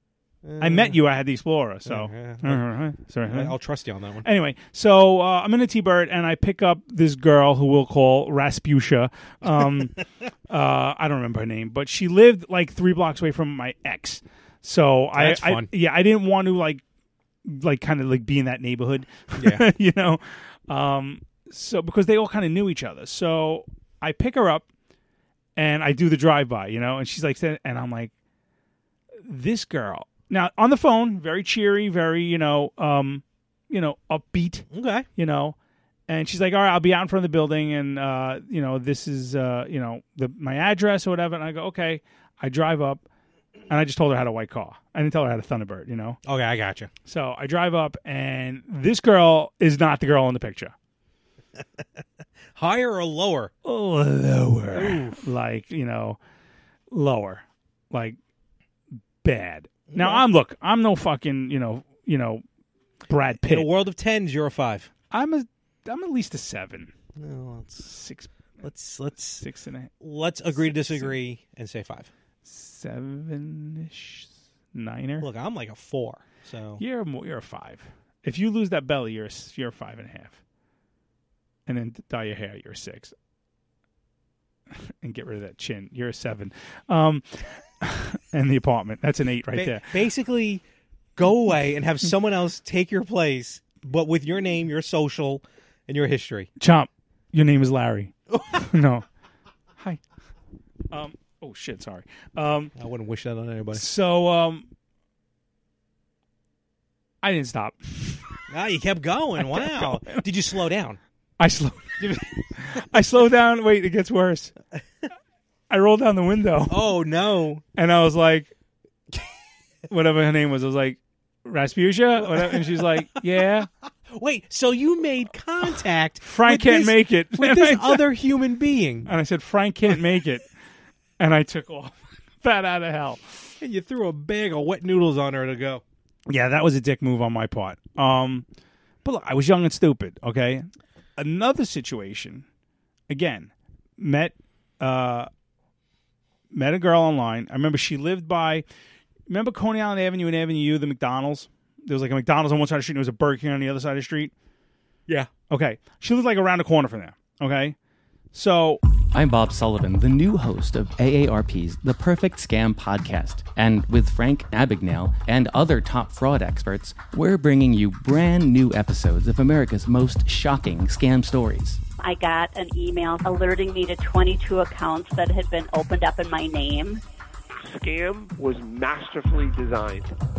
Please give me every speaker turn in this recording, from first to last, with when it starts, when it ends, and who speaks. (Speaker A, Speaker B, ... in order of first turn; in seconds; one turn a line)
Speaker A: 0.4-1.0
Speaker B: 0.6-3.6
Speaker A: 1.8-2.7
Speaker A: 3.3-4.3
Speaker B: 4.2-16.8
Speaker A: 9.4-10.0
Speaker A: 15.1-15.7
Speaker B: 17.4-24.7
Speaker A: 19.4-19.7
Speaker B: 25.6-28.1
Speaker B: 29.3-35.6
Speaker A: 34.7-35.1
Speaker B: 36.1-43.0
Speaker B: 43.7-46.2
Speaker A: 46.2-46.9
Speaker B: 47.1-50.7
Speaker A: 52.5-53.5
Speaker B: 53.6-56.2
Speaker A: 54.7-55.2
Speaker B: 56.9-58.2
Speaker B: 59.2-62.4
Speaker A: 59.9-60.3
Speaker B: 63.1-63.7
Speaker A: 63.4-64.9
Speaker B: 65.1-66.9
Speaker A: 67.2-67.9
Speaker B: 67.8-68.3
Speaker A: 68.6-69.5
Speaker B: 69.4-69.9
Speaker A: 70.0-72.1
Speaker B: 70.5-71.2
Speaker B: 72.5-75.3
Speaker A: 75.2-76.8
Speaker B: 76.8-80.4
Speaker B: 81.7-83.1
Speaker B: 84.7-90.0
Speaker A: 89.5-90.6
Speaker A: 91.2-96.5
Speaker B: 96.6-99.1
Speaker A: 98.3-98.6
Speaker B: 100.9-102.7
Speaker A: 102.8-103.9
Speaker B: 103.7-104.7
Speaker B: 107.2-108.3
Speaker A: 108.5-111.0
Speaker B: 109.4-110.2
Speaker B: 111.4-114.5
Speaker A: 112.0-112.4
Speaker B: 115.7-116.9
Speaker A: 116.7-117.6
Speaker B: 117.8-118.5
Speaker B: 119.9-123.7
Speaker A: 122.2-123.5
Speaker A: 124.1-129.1
Speaker B: 126.2-128.1
Speaker B: 129.1-130.5
Speaker B: 131.2-133.5
Speaker A: 133.6-135.8
Speaker B: 136.3-138.5
Speaker B: 139.0-142.4
Speaker B: 143.1-145.3
Speaker B: 146.5-148.7
Speaker B: 149.3-154.3
Speaker B: 155.5-157.8
Speaker B: 158.3-158.8
Speaker C: 159.1-171.8
Speaker D: 172.0-177.0
Speaker E: 177.6-180.1